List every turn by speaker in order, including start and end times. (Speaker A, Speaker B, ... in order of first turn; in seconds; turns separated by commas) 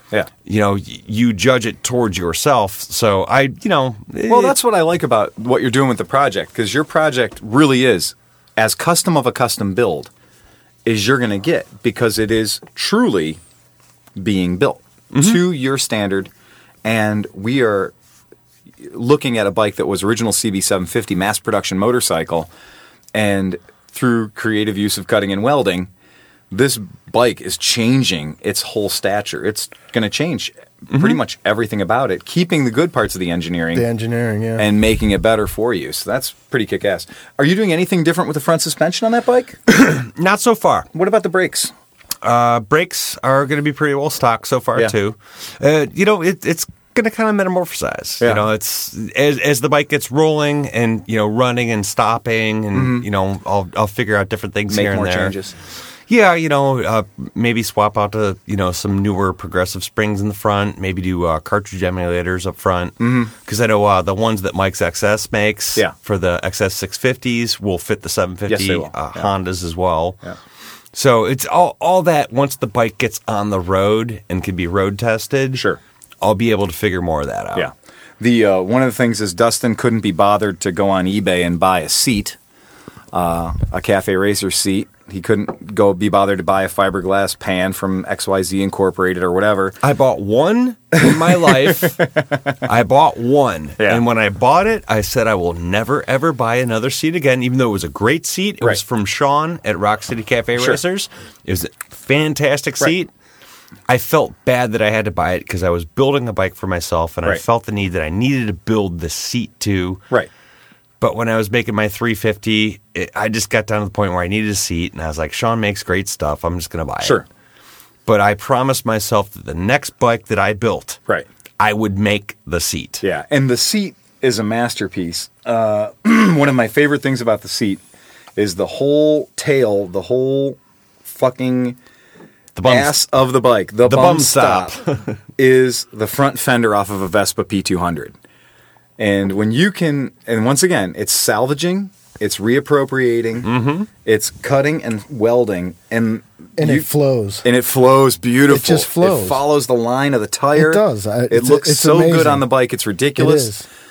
Speaker A: 0.5-4.6, Speaker B: 4.3-10.1, Speaker B: 10.8-13.4, Speaker B: 14.2-16.3, Speaker A: 15.1-15.4, Speaker B: 16.8-17.9, Speaker B: 18.8-22.5, Speaker B: 23.1-25.9, Speaker B: 26.5-33.9, Speaker C: 33.7-34.7, Speaker B: 34.6-39.6, Speaker A: 39.7-40.9, Speaker B: 40.9-41.7, Speaker A: 42.2-55.4, Speaker B: 48.2-48.5, Speaker B: 52.7-53.1, Speaker B: 54.7-55.5, Speaker A: 56.1-70.2, Speaker B: 63.0-63.3, Speaker B: 68.5-69.3, Speaker A: 70.9-75.6, Speaker B: 75.5-75.8, Speaker A: 76.2-77.7, Speaker B: 77.5-82.4, Speaker B: 83.1-89.8, Speaker A: 89.8-92.1, Speaker B: 91.5-91.8, Speaker A: 92.6-103.1, Speaker A: 103.9-110.0, Speaker A: 111.0-117.2, Speaker A: 118.1-121.0, Speaker A: 121.6-123.0, Speaker B: 123.0-127.8, Speaker B: 128.4-131.8, Speaker A: 132.6-133.0, Speaker B: 132.6-134.8, Speaker A: 133.8-135.2, Speaker B: 135.4-138.2, Speaker B: 139.0-143.5, Speaker A: 143.4-143.9, Speaker B: 144.0-146.9, Speaker C: 146.6-147.4, Speaker B: 147.4-153.5, Speaker C: 148.5-149.4, Speaker C: 150.6-152.5, Speaker C: 153.2-153.7